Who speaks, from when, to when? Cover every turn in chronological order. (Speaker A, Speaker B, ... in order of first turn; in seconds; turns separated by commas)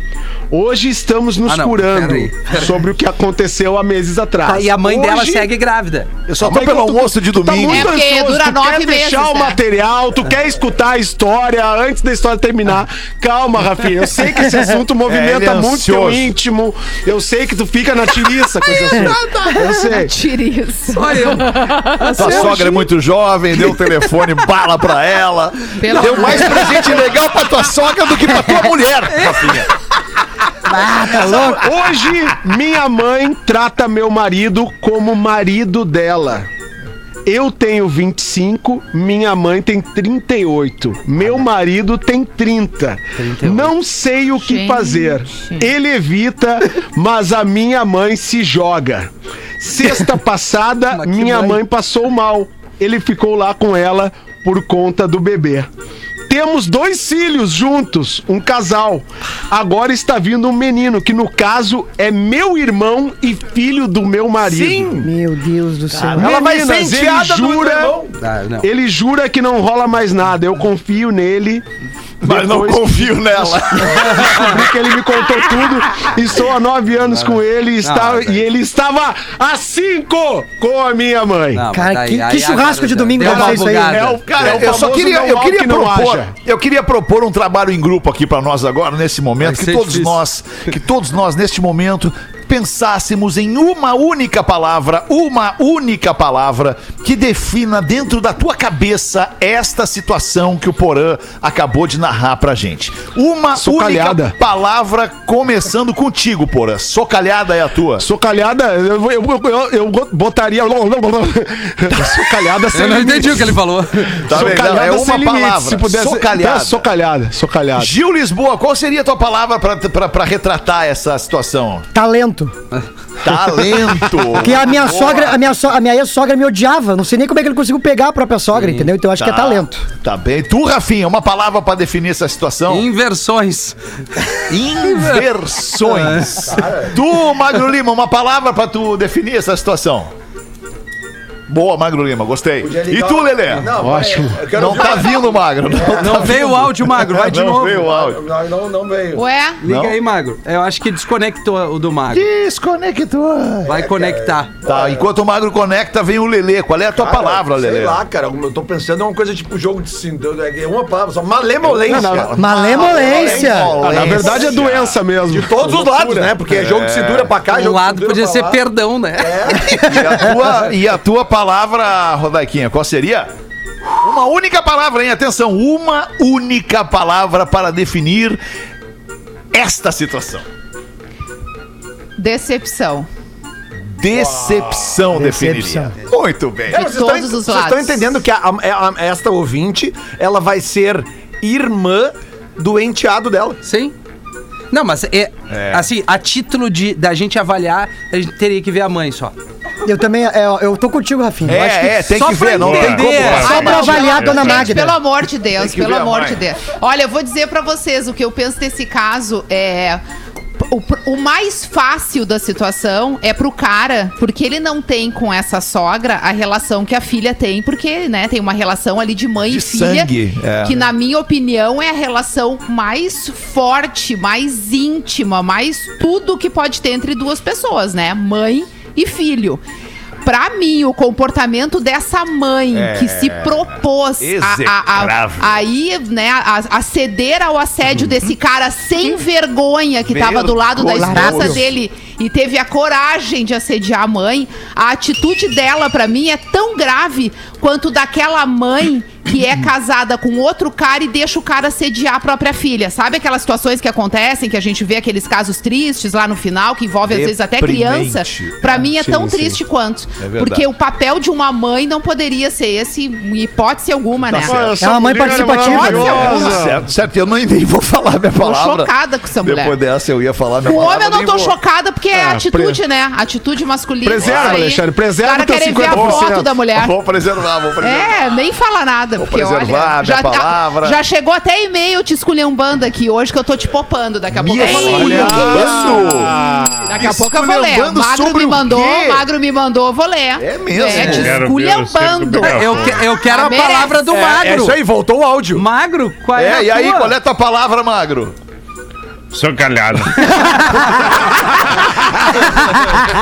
Speaker A: 0.5-5.5, Speaker B: 1.4-2.7, Speaker B: 4.4-6.1, Speaker C: 6.3-8.0, Speaker A: 6.4-20.1, Speaker D: 7.6-9.6, Speaker C: 15.1-16.3, Speaker D: 18.9-22.7, Speaker B: 20.9-22.7, Speaker C: 22.2-29.7, Speaker D: 25.8-27.0, Speaker A: 26.0-26.4, Speaker B: 29.1-29.5, Speaker E: 30.7-31.6, Speaker C: 30.8-31.8, Speaker A: 31.5-36.5, Speaker A: 37.3-55.7, Speaker B: 43.1-43.8, Speaker D: 44.4-45.7, Speaker B: 50.9-51.6, Speaker A: 56.3-65.0, Speaker F: 64.4-65.1, Speaker E: 65.0-66.4, Speaker F: 66.0-68.1, Speaker A: 66.1-68.0, Speaker B: 68.2-68.7, Speaker A: 68.6-71.7, Speaker C: 72.2-74.7, Speaker A: 72.2-73.1, Speaker A: 74.0-81.7, Speaker B: 77.8-78.5, Speaker B: 81.5-84.2, Speaker E: 81.7-84.2, Speaker A: 83.2-86.3, Speaker C: 84.2-108.1, Speaker B: 89.4-90.2, Speaker A: 103.6-104.4, Speaker A: 108.0-117.9, Speaker B: 112.7-114.4, Speaker C: 114.3-116.9, Speaker C: 117.8-121.9, Speaker E: 121.9-122.5, Speaker C: 123.2-125.4, Speaker E: 124.3-129.8, Speaker B: 128.5-128.9, Speaker C: 129.2-132.9, Speaker B: 132.7-135.3, Speaker C: 134.5-140.1, Speaker B: 135.8-136.5, Speaker F: 136.5-137.0, Speaker C: 141.5-143.7, Speaker F: 142.6-146.4, Speaker A: 143.8-144.4, Speaker C: 144.5-148.2, Speaker B: 146.0-147.8, Speaker F: 147.0-149.2, Speaker D: 149.2-149.6, Speaker B: 149.6-152.3, Speaker C: 149.7-150.0, Speaker C: 152.1-153.8, Speaker B: 153.7-154.5, Speaker F: 153.7-155.1, Speaker C: 154.7-158.0, Speaker F: 157.0-164.6, Speaker C: 161.6-165.0, Speaker A: 161.9-162.3, Speaker E: 162.4-163.8, Speaker A: 163.8-166.3, Speaker F: 165.3-168.6, Speaker C: 166.5-167.3, Speaker B: 167.5-170.0, Speaker F: 169.2-170.5, Speaker C: 169.8-173.3, Speaker C: 174.0-178.4, Speaker C: 179.5-180.5, Speaker D: 182.2-183.1, Speaker C: 183.9-186.8, Speaker E: 185.1-185.9, Speaker F: 186.7-193.6, Speaker D: 186.7-188.1, Speaker B: 193.6-193.9, Speaker B: 194.7-199.3, Speaker C: 195.5-195.9, Speaker E: 199.8-202.0, Speaker C: 201.4-203.7, Speaker B: 202.1-204.1, Speaker G: 202.6-204.7, Speaker D: 203.2-210.0, Speaker E: 203.4-205.0, Speaker C: 205.6-206.4, Speaker D: 210.6-220.1, Speaker C: 219.4-220.9, Speaker D: 220.6-229.6, Speaker D: 230.2-264.6, Speaker C: 232.7-235.6, Speaker C: 240.1-241.7, Speaker E: 240.9-241.6, Speaker C: 257.1-259.5, Speaker C: 260.2-260.7, Speaker C: 264.2-264.9, Speaker A: 264.4-266.8, Speaker E: 264.8-266.4, Speaker D: 265.4-266.7, Speaker C: 265.9-271.6, Speaker D: 268.4-269.8, Speaker D: 270.6-276.9, Speaker A: 272.1-272.8, Speaker A: 274.0-276.5, Speaker C: 274.2-274.7, Speaker C: 275.9-278.4, Speaker D: 277.8-286.1, Speaker C: 279.2-281.0, Speaker C: 284.3-286.4, Speaker A: 284.6-286.9, Speaker D: 286.9-294.1, Speaker C: 286.9-289.3, Speaker C: 290.4-291.4, Speaker G: 290.9-293.1, Speaker B: 290.9-291.3, Speaker B: 292.4-294.8, Speaker F: 294.1-295.6, Speaker B: 295.5-297.1, Speaker C: 296.4-298.4, Speaker G: 299.3-300.4